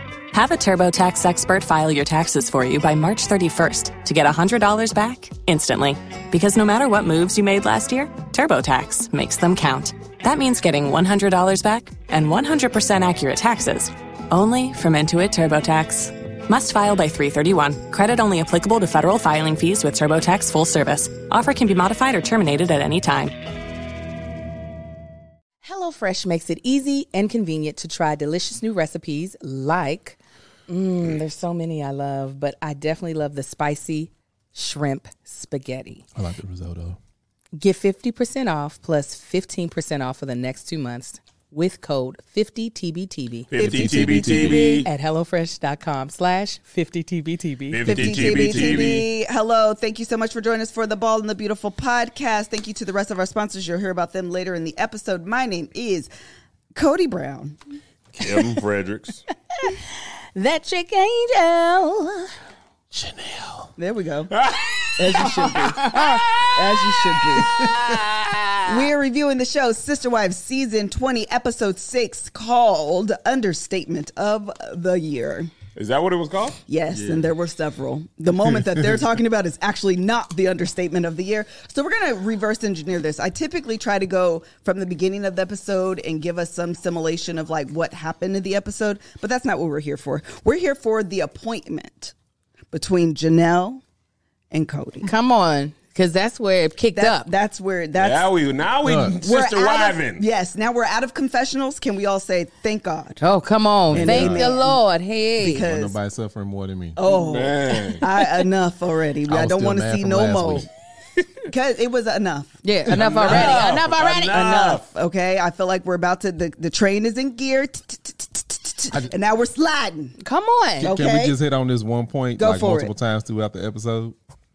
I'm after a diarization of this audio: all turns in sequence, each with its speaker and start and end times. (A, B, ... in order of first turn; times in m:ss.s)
0:00.3-0:23.3 A
0:25.6-0:36.0 B
0:36.1-0:37.0 C
0:37.6-0:43.5 B
0:43.5-0:44.9 D
0:43.6-0:44.4 E
0:43.6-0:44.7 C
0:44.3-0:49.0 B
0:47.7-0:49.1 D
0:47.8-0:56.1 E
0:56.7-0:57.6 E
0:58.1-0:59.2 D
0:59.6-1:02.3 B
1:02.9-1:03.7 D
1:03.8-1:04.3 E
1:04.3-1:05.3 D
1:05.0-1:06.0 E
1:05.2-1:06.3 B
1:05.8-1:06.8 D
1:06.5-1:07.7 E
1:07.4-1:08.7 B
1:08.6-1:15.5 E
1:15.8-1:17.3 D
1:16.7-1:32.1 E
1:32.7-1:33.8 E
1:34.5-1:35.1 E
1:35.0-1:37.3 B
1:36.9-1:38.3 E
1:38.0-1:40.2 D
1:38.8-1:39.2 C
1:39.2-1:43.2 E
1:43.2-1:45.6 B
1:43.9-1:44.5 C
1:43.9-1:44.8 E
1:45.4-1:46.0 E
1:45.6-1:47.0 C
1:47.0-1:50.7 E
1:47.0-1:48.0 D
1:49.3-1:50.7 C
1:51.4-1:52.6 E
1:52.6-1:54.4 B
1:52.9-1:54.9 D
1:52.9-1:53.6 C
1:53.3-1:53.5 E
1:54.3-2:00.1 E
2:00.2-2:00.9 B
2:00.8-2:04.2 C
2:00.8-2:01.4 E
2:02.4-2:02.9 E